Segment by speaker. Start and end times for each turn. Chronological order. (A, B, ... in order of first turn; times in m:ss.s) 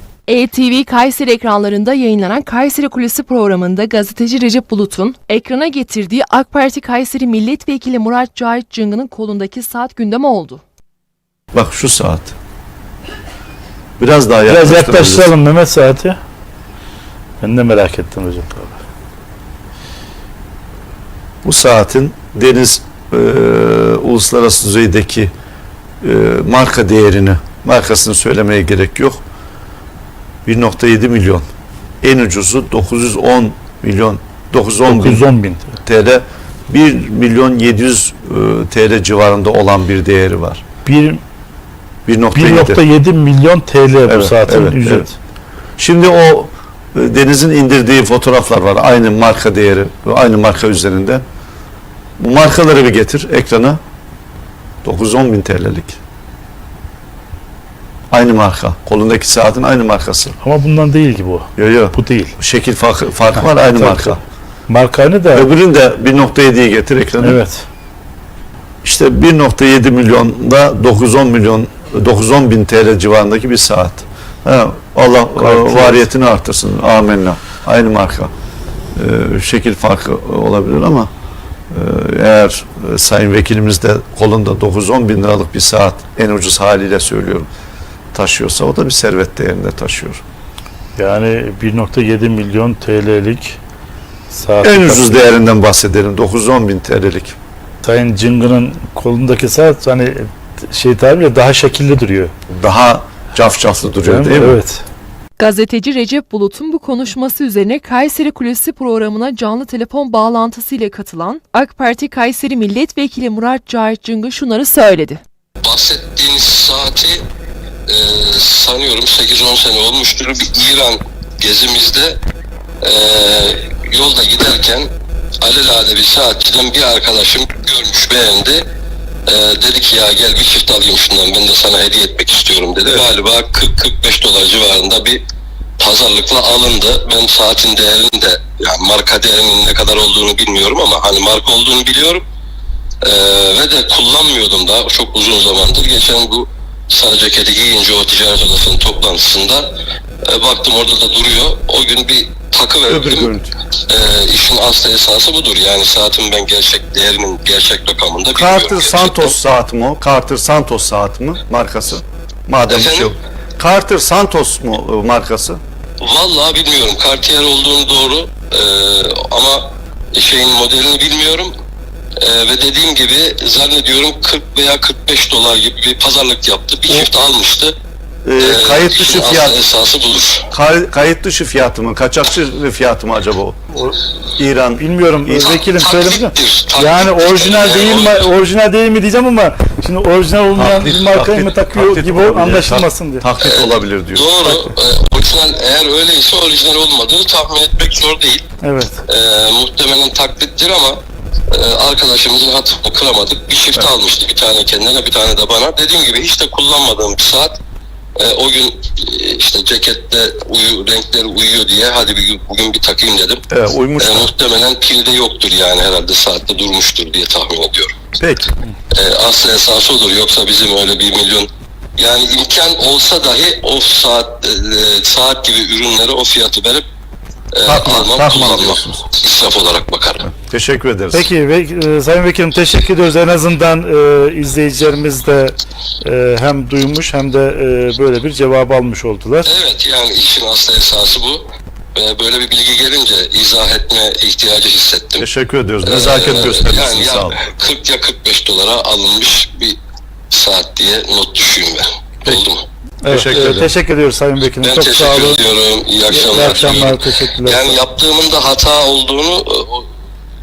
0:00.3-0:10.6 A
0:11.5-0:12.4 B
0:14.0-0:15.3 B
0:14.5-0:16.2 C
0:17.4-0:18.8 C
0:21.4-0:25.3 B
0:26.0-0:29.2 B
0:30.5-0:31.5 B
0:32.0-0:35.3 B
0:34.9-0:35.8 C
0:35.8-0:40.6 B
0:40.8-0:41.2 C
0:42.1-0:42.8 B
0:42.3-0:45.1 C
0:44.1-0:45.1 B
0:45.8-0:51.2 B
0:52.2-0:53.8 B
0:54.8-0:56.0 B
0:58.1-1:00.4 B
1:00.4-1:02.3 C
1:01.6-1:04.2 B
1:03.4-1:05.5 C
1:05.3-1:07.4 B
1:07.2-1:07.7 C
1:08.8-1:18.3 B
1:15.4-1:16.1 C
1:19.0-1:21.1 B
1:21.7-1:27.5 B
1:28.1-1:30.2 B
1:31.0-1:33.6 C
1:34.3-1:35.4 C
1:34.6-1:37.4 B
1:37.8-1:42.3 C
1:42.5-1:44.6 B
1:43.8-1:44.8 C
1:45.4-1:55.2 A
1:55.6-1:57.3 D
1:57.9-2:02.2 D
2:02.8-2:04.9 D
2:05.4-2:08.7 D
2:09.3-2:15.2 D
2:15.8-2:22.2 D
2:23.0-2:29.7 D
2:30.3-2:33.3 D
2:32.9-2:33.5 B
2:33.9-2:39.4 D
2:38.3-2:45.6 B
2:42.7-2:43.1 D
2:46.0-2:51.5 D
2:52.2-2:57.8 D
2:58.2-2:59.6 B
2:58.4-3:00.5 D
3:00.5-3:03.6 B
3:03.7-3:04.0 C
3:04.4-3:05.6 B
3:04.7-3:13.2 C
3:05.4-3:08.3 D
3:10.6-3:14.6 B
3:13.4-3:18.5 D
3:18.6-3:19.0 C
3:19.1-3:21.0 D
3:21.5-3:27.6 D
3:28.2-3:33.4 D
3:33.5-3:34.3 B
3:34.0-3:38.0 D
3:38.2-3:38.5 B
3:39.0-3:46.8 D
3:47.6-3:50.3 D
3:47.7-3:49.1 B
3:50.2-3:51.3 B
3:51.1-3:59.5 C
3:59.4-4:05.3 D
4:05.2-4:07.4 B
4:05.8-4:09.8 D
4:10.3-4:12.6 D
4:13.0-4:15.4 C
4:13.1-4:13.7 B
4:14.6-4:19.9 D
4:16.1-4:17.8 C
4:16.4-4:16.8 B